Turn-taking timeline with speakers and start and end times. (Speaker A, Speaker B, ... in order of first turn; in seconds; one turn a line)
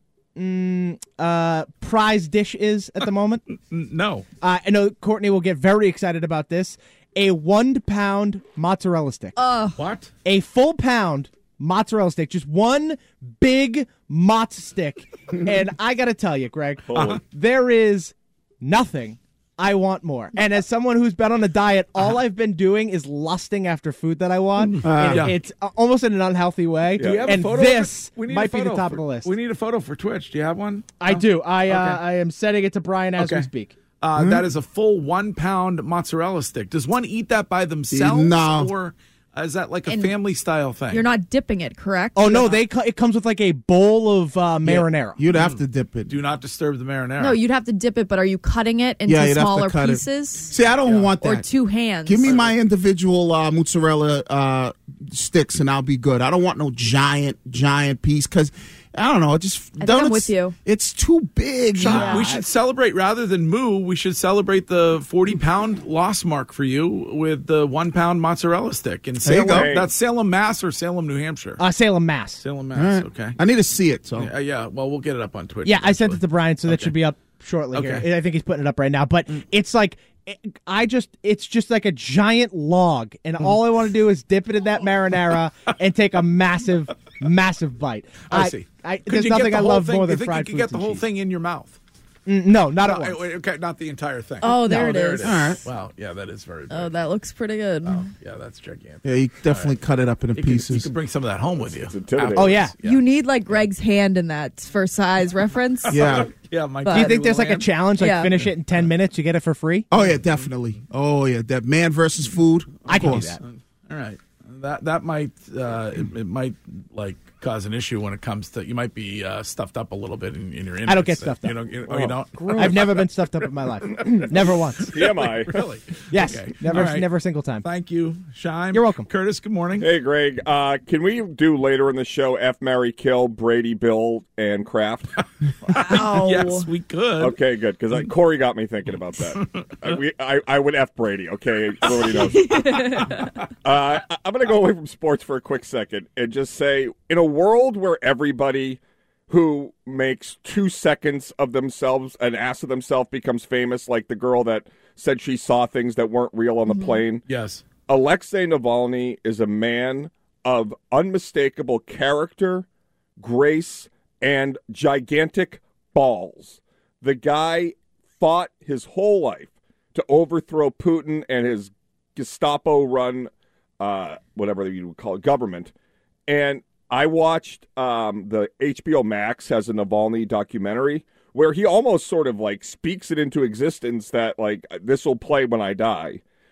Speaker A: 0.4-3.4
Speaker B: 3.6-4.2
Speaker A: 4.4-9.3
Speaker C: 9.4-9.8
Speaker B: 9.8-10.1
Speaker A: 10.2-29.3
Speaker D: 16.9-17.2
Speaker B: 16.9-17.2
Speaker B: 24.6-25.4
Speaker E: 24.8-25.3
Speaker D: 27.0-27.4
Speaker B: 27.0-32.0
Speaker A: 31.0-33.7
Speaker B: 33.2-33.5
Speaker B: 34.0-41.1
Speaker E: 34.1-34.5
Speaker E: 37.9-38.7
Speaker C: 39.9-40.1
Speaker C: 40.9-42.5
Speaker A: 42.1-45.2
Speaker B: 44.6-47.4
Speaker E: 45.2-46.1
Speaker C: 47.2-50.5
Speaker E: 49.1-51.5
Speaker B: 50.8-51.1
Speaker C: 51.2-52.3
Speaker E: 52.1-62.3
Speaker B: 52.2-52.5
Speaker C: 59.8-60.6
Speaker B: 61.8-71.6
Speaker A: 61.9-62.4
Speaker C: 61.9-62.2
Speaker E: 69.2-69.7
Speaker D: 69.5-69.9
Speaker A: 71.6-72.4
Speaker B: 72.4-73.4
Speaker E: 72.7-74.3
Speaker B: 74.1-76.9
Speaker A: 75.6-91.0
Speaker B: 77.7-78.1
Speaker B: 88.3-91.8
Speaker A: 92.2-93.2
Speaker B: 92.8-96.9
Speaker C: 94.4-95.4
Speaker E: 95.2-95.6
Speaker C: 96.7-98.1
Speaker B: 97.8-99.8
Speaker E: 99.0-100.9
Speaker B: 100.3-103.0
Speaker D: 101.8-102.5
Speaker A: 102.3-102.8
Speaker C: 102.8-106.2
Speaker B: 105.9-108.9
Speaker E: 105.9-106.3
Speaker A: 106.9-109.8
Speaker C: 108.0-108.3
Speaker E: 109.9-113.3
Speaker B: 112.8-127.1
Speaker A: 112.9-113.4
Speaker A: 120.8-125.0
Speaker D: 124.9-125.6
Speaker A: 126.1-127.7
Speaker B: 127.6-129.9
Speaker A: 128.7-129.1
Speaker D: 129.8-135.1
Speaker C: 135.7-136.7
Speaker B: 135.7-137.4
Speaker D: 137.2-142.8
Speaker B: 142.0-143.3
Speaker C: 142.4-143.2
Speaker D: 143.6-157.2
Speaker C: 156.7-157.0
Speaker B: 157.3-157.6
Speaker D: 157.9-162.7
Speaker D: 163.2-175.7
Speaker D: 176.3-186.2